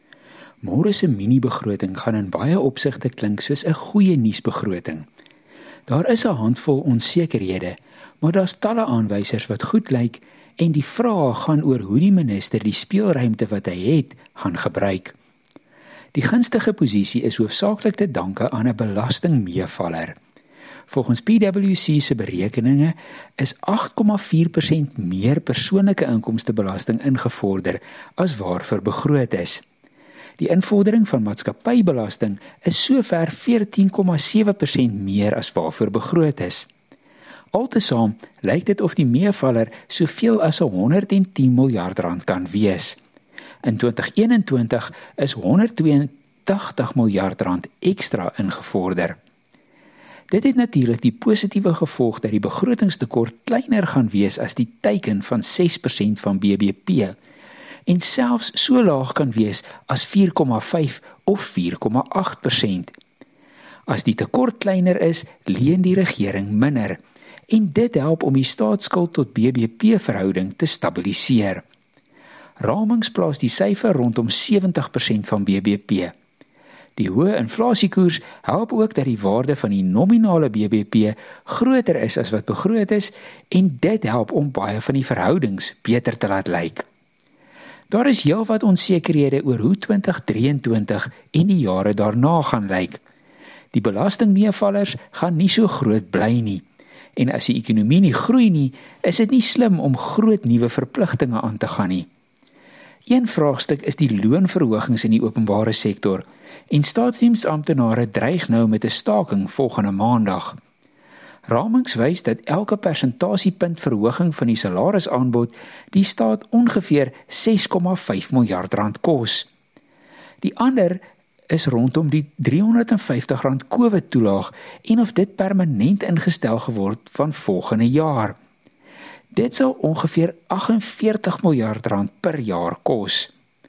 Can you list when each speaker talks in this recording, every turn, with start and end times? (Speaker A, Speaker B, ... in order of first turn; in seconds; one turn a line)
Speaker A: 0.6-5.1
Speaker A: 5.9-15.2
Speaker A: 16.1-20.2
Speaker A: 20.9-29.6
Speaker A: 30.4-36.7
Speaker A: 37.5-43.0
Speaker A: 43.6-49.2
Speaker A: 50.3-57.2
Speaker A: 57.9-63.0
Speaker A: 63.9-71.6
Speaker A: 72.6-76.1
Speaker A: 77.0-86.8
Speaker A: 87.9-93.0
Speaker A: 93.7-96.6
Speaker A: 97.2-102.1
Speaker A: 103.1-110.6
Speaker A: 111.5-119.5
Speaker A: 120.4-128.4
Speaker A: 129.3-133.3